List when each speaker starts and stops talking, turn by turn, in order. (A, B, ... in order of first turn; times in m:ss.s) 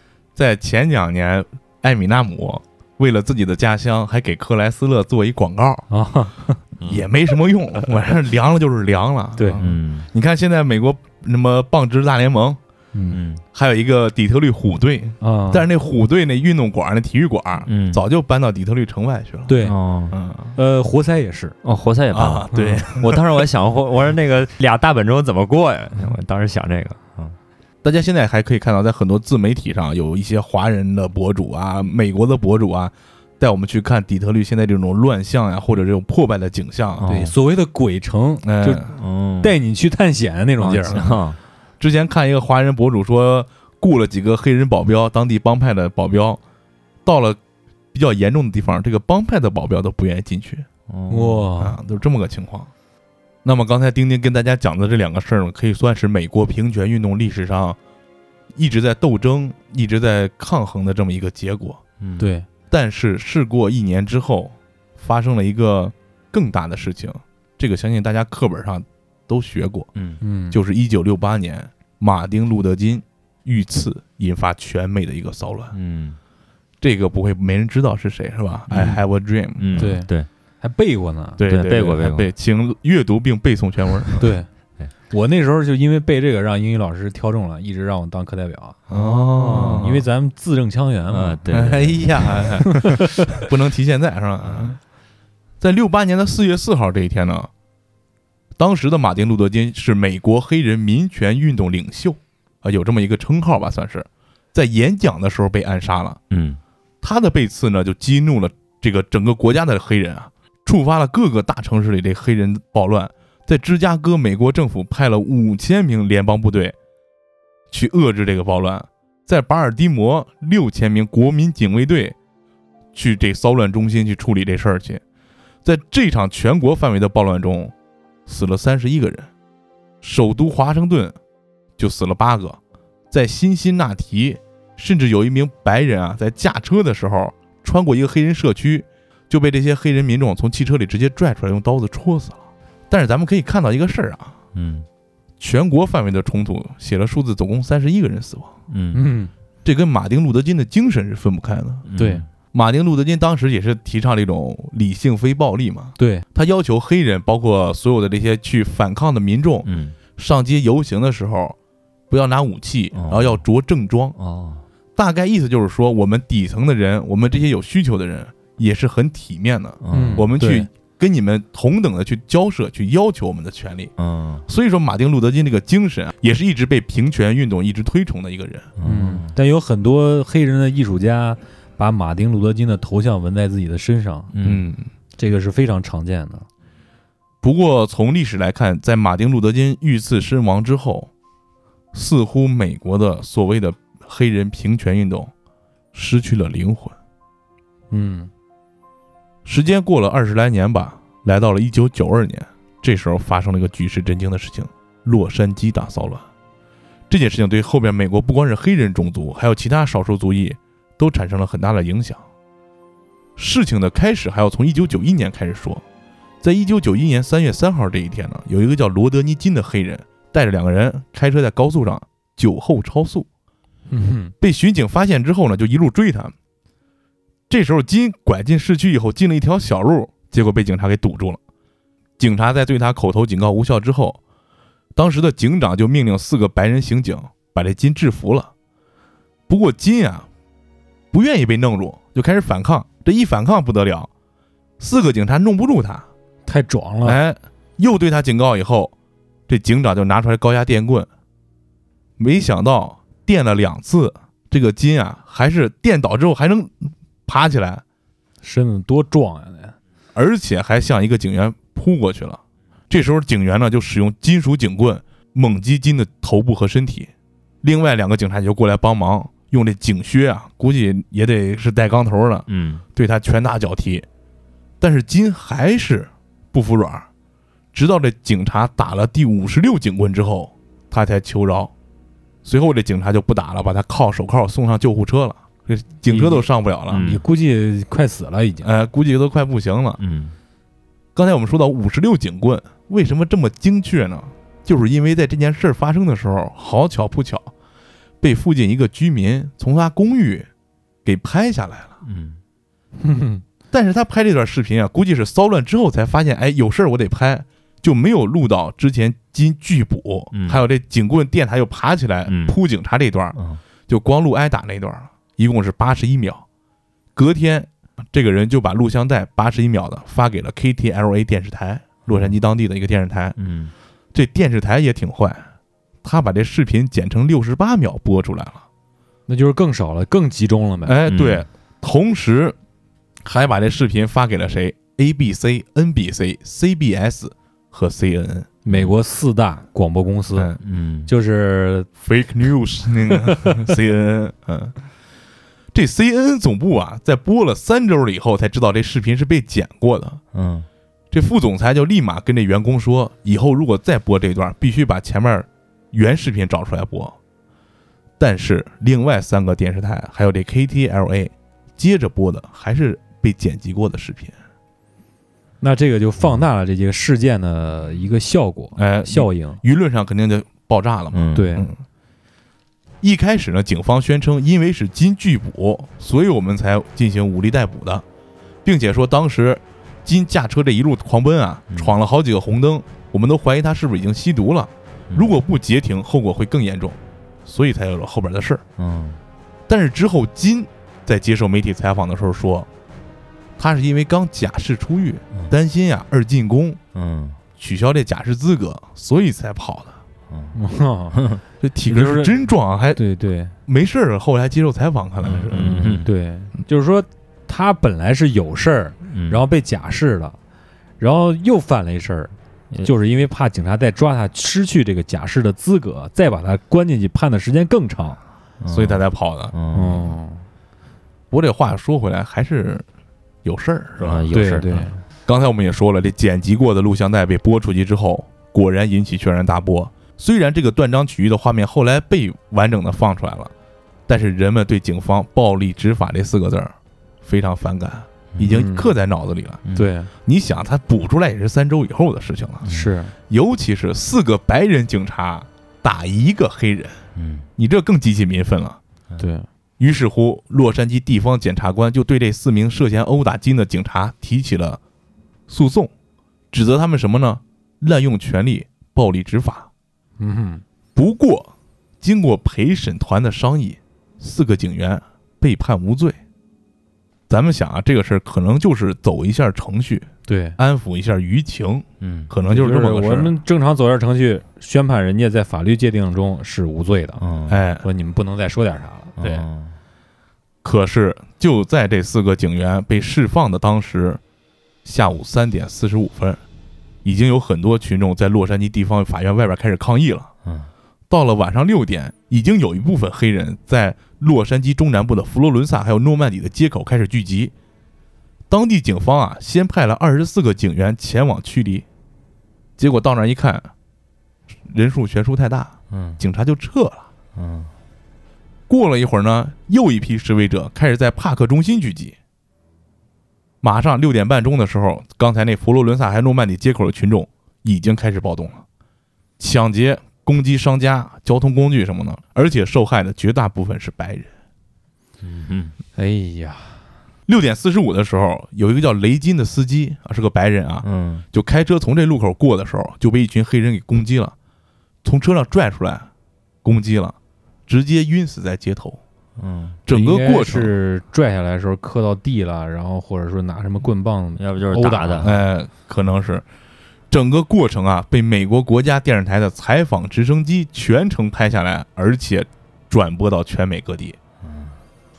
0:00.4-0:05.9 A
0:05.9-0:06.6 B
0:06.8-0:12.6 A
0:09.6-0:10.1 C
0:12.9-0:13.2 B
0:13.1-0:13.4 C
0:13.5-0:19.6 A
0:15.2-0:15.7 B
0:17.7-0:18.0 C
0:19.5-0:19.8 B
0:19.6-0:20.2 C
0:20.1-0:20.6 A
0:20.6-0:21.6 B
0:21.6-0:27.4 C
0:22.1-0:23.5 A
0:22.5-0:22.8 B
0:27.8-0:37.2 A
0:37.0-0:37.3 C
0:37.1-0:41.0 B
0:38.4-0:38.9 A
0:39.0-0:39.5 C
0:40.6-0:41.4 C
0:40.9-0:41.2 A
0:41.8-0:46.4 A
0:47.0-0:47.4 A
0:47.9-0:50.7 A
0:50.9-0:51.5 C
0:51.1-0:51.8 B
0:51.6-0:52.7 A
0:53.4-0:57.8 A
0:58.6-1:01.8 A
1:02.0-1:02.3 C
1:02.2-1:02.5 B
1:02.7-1:09.9 A
1:10.2-1:10.6 B
1:10.5-1:15.7 A
1:15.7-1:16.2 C
1:16.8-1:20.0 A
1:18.7-1:19.0 C
1:19.6-1:20.3 C
1:19.8-1:20.1 B
1:20.6-1:21.4 B
1:21.4-1:24.3 A
1:21.5-1:22.3 C
1:24.2-1:24.5 B
1:25.1-1:33.0 B
1:28.9-1:30.0 A
1:31.1-1:32.7 C
1:31.5-1:34.8 A
1:35.6-1:37.5 A
1:38.6-1:46.2 A
1:46.3-1:46.6 C
1:47.0-1:56.8 A
1:57.7-2:02.2 A
2:02.9-2:05.0 A
2:05.6-2:07.7 A
2:08.3-2:09.3 A
2:10.0-2:11.2 A
2:11.8-2:12.6 A
2:13.1-2:24.4 A
2:24.6-2:24.9 C
2:25.4-2:28.5 A
2:28.7-2:29.0 C
2:28.9-2:29.3 B
2:29.6-2:31.9 A
2:31.9-2:32.2 C
2:32.0-2:32.2 B
2:32.5-2:41.6 A
2:36.0-2:36.2 B
2:39.6-2:40.0 C
2:42.1-2:44.2 A
2:43.0-2:43.4 C
2:44.2-2:44.6 C
2:45.0-2:53.9 A
2:49.8-2:50.3 C
2:49.9-2:50.7 B
2:54.0-2:54.4 C
2:54.5-2:58.7 A
2:58.8-2:59.4 C
2:58.8-3:04.3 B
3:04.3-3:04.6 C
3:04.4-3:04.9 A
3:05.2-3:06.5 B
3:07.4-3:11.1 A
3:11.9-3:15.3 A
3:15.9-3:17.0 A
3:17.9-3:18.3 B
3:19.4-3:26.3 A
3:27.1-3:32.2 A
3:33.4-3:35.8 A
3:36.4-3:43.3 A
3:43.9-3:44.3 B
3:44.4-3:46.3 A
3:47.5-3:51.4 A
3:52.2-3:54.2 A
3:55.0-3:58.5 A
3:59.5-4:00.3 A
4:01.1-4:04.1 A
4:04.8-4:06.1 A
4:06.5-4:07.2 B
4:07.0-4:08.9 A
4:09.5-4:11.1 A
4:12.2-4:17.8 A
4:18.4-4:19.8 B
4:20.2-4:27.1 A
4:27.6-4:34.1 A
4:32.5-4:32.8 C
4:34.8-4:37.1 A
4:37.7-4:41.7 A
4:42.4-4:47.0 A
4:46.1-4:48.7 B
4:46.9-4:47.2 C
4:48.6-4:50.0 A
4:50.0-4:50.4 C
4:51.2-4:57.5 A
4:58.2-5:00.5 A
5:01.0-5:02.0 A
5:02.0-5:02.4 C
5:03.0-5:03.4 B
5:03.7-5:13.4 A
5:10.3-5:10.6 C
5:12.3-5:12.6 C
5:13.4-5:13.6 C
5:13.9-5:16.4 A
5:17.2-5:23.4 A
5:22.1-5:22.3 C
5:23.4-5:23.7 C
5:24.1-5:25.5 A
5:26.0-5:28.6 A
5:29.3-5:31.0 B
5:30.8-5:32.6 A
5:31.1-5:31.4 C
5:33.2-5:38.5 A
5:38.6-5:40.6 B
5:40.6-5:41.1 C
5:41.1-5:41.9 B
5:42.0-5:44.7 A
5:43.1-5:43.5 B
5:45.7-5:50.2 A
5:50.3-5:50.7 C
5:51.1-5:57.2 A
5:58.2-6:04.4 A
6:05.6-6:09.6 B
6:08.8-6:11.8 A
6:11.1-6:11.5 C
6:11.3-6:11.7 B
6:13.0-6:18.0 A
6:18.6-6:28.6 A
6:28.8-6:29.2 C
6:29.7-6:32.7 A
6:33.6-6:36.8 A
6:37.0-6:37.4 C
6:37.6-6:40.0 A
6:40.3-6:40.6 C
6:40.5-6:41.2 B
6:41.1-6:41.4 C
6:41.6-6:43.0 A
6:41.8-6:42.4 B
6:43.0-6:43.6 B
6:43.7-6:45.8 A
6:45.2-6:46.1 C
6:45.5-6:50.4 B
6:49.1-6:49.4 C
6:51.0-6:58.2 B
6:58.6-7:00.1 C
6:58.7-6:59.5 A
6:59.7-7:00.5 B
7:01.3-7:02.8 A
7:03.4-7:04.3 A
7:04.0-7:04.9 C
7:04.3-7:05.0 B
7:05.3-7:13.5 A
7:14.1-7:19.6 A
7:18.5-7:18.9 B
7:19.7-7:19.9 C
7:19.8-7:20.1 B
7:20.3-7:22.7 A
7:22.6-7:22.9 C
7:22.7-7:23.2 B
7:23.3-7:27.0 A
7:27.2-7:27.5 C
7:27.6-7:28.8 A
7:29.2-7:29.5 B
7:29.8-7:34.8 A
7:35.5-7:35.9 A
7:36.5-7:39.7 A
7:40.2-7:40.6 B
7:41.0-7:46.2 A
7:47.3-7:53.4 A
7:50.3-7:50.6 B
7:52.0-7:52.3 C
7:52.5-7:57.2 B
7:57.2-7:57.6 C
7:57.5-7:57.9 A
7:57.8-7:59.1 B
7:59.2-7:59.8 C
7:59.2-7:59.5 A
8:00.6-8:04.2 A
8:04.8-8:06.4 A
8:07.0-8:10.3 A
8:10.4-8:10.7 C
8:11.1-8:17.5 A
8:18.5-8:21.8 A
8:22.8-8:23.7 A
8:24.6-8:27.1 A
8:25.9-8:26.2 C
8:27.4-8:27.7 C
8:28.7-8:32.2 A
8:33.6-8:38.6 A
8:39.4-8:44.3 A
8:45.2-8:45.7 C
8:46.0-8:46.8 B
8:47.3-8:54.3 A
8:50.8-8:51.2 C
8:55.0-8:56.1 A
8:56.6-8:57.2 A
8:57.7-8:59.0 A
8:59.4-8:59.8 C
8:59.8-9:00.7 A
8:59.9-9:05.3 B
9:04.4-9:05.4 C
9:05.2-9:06.4 A
9:07.1-9:14.2 A
9:14.4-9:14.8 C